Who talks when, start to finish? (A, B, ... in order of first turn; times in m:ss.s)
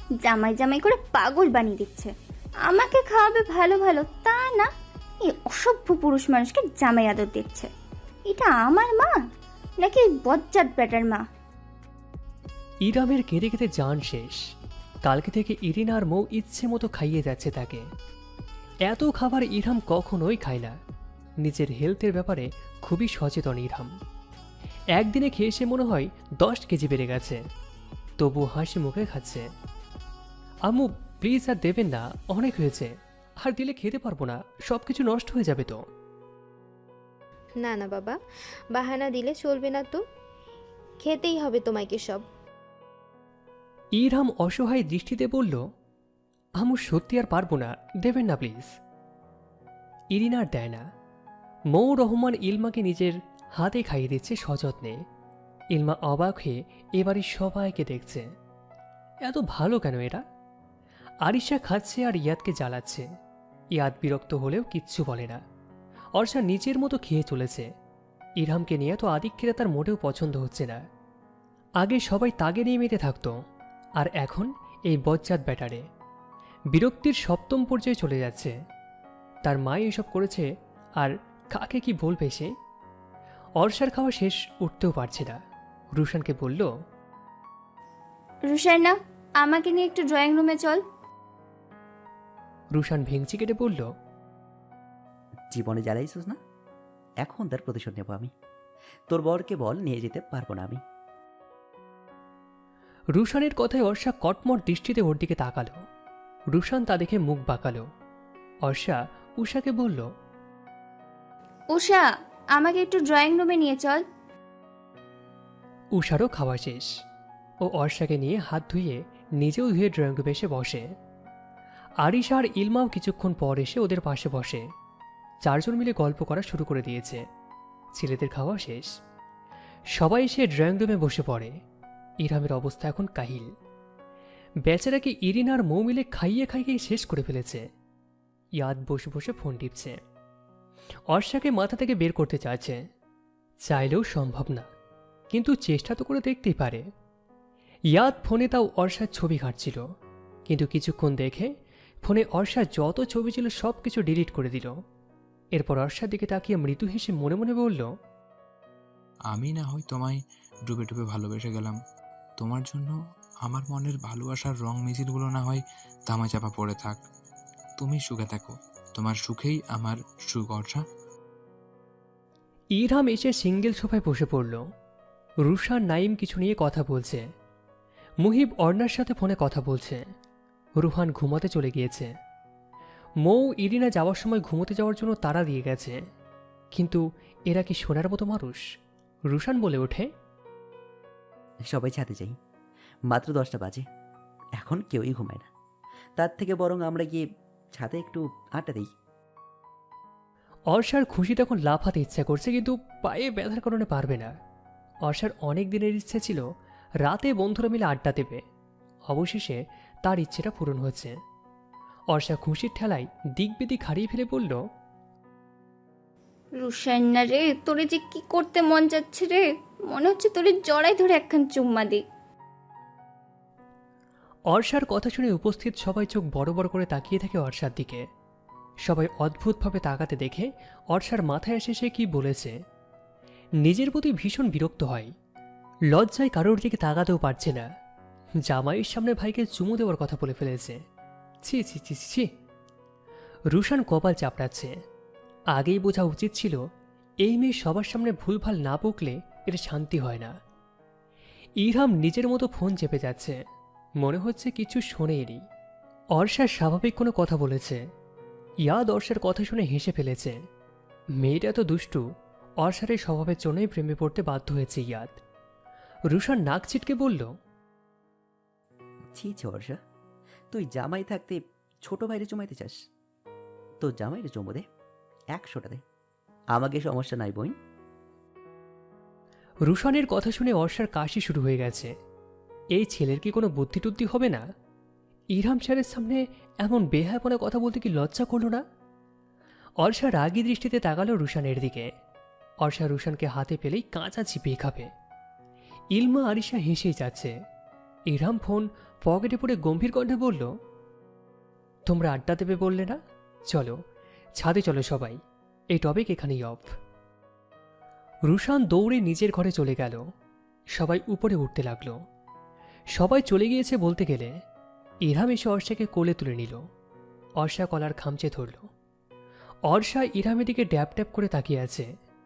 0:00.2-0:02.1 A
0:02.7-0:04.7 A
0:05.3-0:07.7 A
0:08.3-0:09.2 A
0:09.8-0:11.2 A
0:12.8-0:14.4 B
0:15.0-0:17.8 B
0:18.9-0:20.8 B
0:21.4-0:23.9 B
0:25.0-0:27.4 B
0:28.2-0:29.5 B
0:30.7-0:35.8 B
0:37.6-0:38.2 C
0:38.7-0:40.0 C
0:41.0-0:42.2 C
0:44.0-0:45.6 B
0:46.6-0:48.7 B
0:50.1-0:50.8 B
0:51.7-0:55.0 B
0:55.7-0:58.2 B
0:59.2-1:00.2 B
1:01.2-1:03.0 B
1:03.8-1:05.4 B
1:06.2-1:07.7 B
1:08.4-1:10.8 B
1:11.8-1:13.3 B
1:14.0-1:15.8 B
1:16.7-1:18.5 B
1:19.4-1:20.5 B
1:21.0-1:22.5 B
1:23.6-1:25.4 B
1:25.9-1:26.7 B
1:28.5-1:30.8 A
1:32.7-1:33.9 B
1:35.5-1:36.4 D
1:37.2-1:38.3 D
1:39.1-1:40.8 D
1:43.1-1:45.8 B
1:46.5-1:47.8 B
1:48.6-1:50.0 B
1:51.7-1:52.0 A
1:52.6-1:54.0 A
1:55.9-1:56.9 B
1:57.6-2:00.8 B
2:02.0-2:04.6 B
2:05.4-2:07.2 B
2:08.0-2:08.9 B
2:09.9-2:11.5 B
2:12.2-2:13.5 B
2:14.7-2:17.6 B
2:18.6-2:20.0 B
2:21.1-2:22.8 B
2:23.6-2:24.7 B
2:25.3-2:26.8 B
2:27.9-2:29.8 B
2:30.5-2:31.5 B
2:32.0-2:34.7 B
2:35.5-2:37.9 B
2:39.3-2:41.8 E
2:42.4-2:47.0 E
2:47.8-2:50.8 E
2:52.8-2:54.6 B
2:55.4-2:57.2 B
2:58.2-3:00.0 B
3:00.8-3:02.1 B
3:03.2-3:06.0 B
3:06.7-3:08.6 B
3:09.3-3:10.1 B
3:11.7-3:12.4 D
3:13.1-3:13.8 D
3:14.6-3:15.5 D
3:16.2-3:17.2 D
3:17.8-3:18.9 D
3:20.7-3:24.3 B
3:25.0-3:26.4 B
3:27.0-3:28.4 B
3:29.1-3:31.1 B
3:32.1-3:34.6 B
3:36.6-3:42.0 A
3:44.5-3:48.0 B
3:48.9-3:52.6 B
3:53.6-3:55.1 B
3:55.9-3:57.7 B
3:58.4-4:00.8 B
4:01.4-4:02.3 B
4:03.5-4:04.7 B
4:05.5-4:06.6 B
4:07.2-4:10.3 B
4:11.6-4:13.4 B
4:14.0-4:15.4 B
4:16.2-4:17.8 B
4:18.6-4:20.4 B
4:21.2-4:22.0 B
4:22.6-4:25.2 B
4:26.1-4:27.3 B
4:29.2-4:29.8 D
4:30.5-4:32.8 D
4:33.8-4:34.6 D
4:35.3-4:35.8 D
4:36.5-4:37.5 D
4:39.7-4:41.9 B
4:42.8-4:44.4 B
4:45.3-4:48.6 B
4:49.8-4:51.9 B
4:52.6-4:54.9 B
4:55.9-4:57.3 B
4:58.1-5:00.5 B
5:01.9-5:03.0 B
5:03.5-5:03.8 B
5:04.4-5:05.2 B
5:05.7-5:06.7 B
5:08.3-5:10.0 B
5:10.8-5:12.0 B
5:13.0-5:14.3 B
5:15.0-5:16.6 B
5:17.4-5:18.7 B
5:19.7-5:21.9 B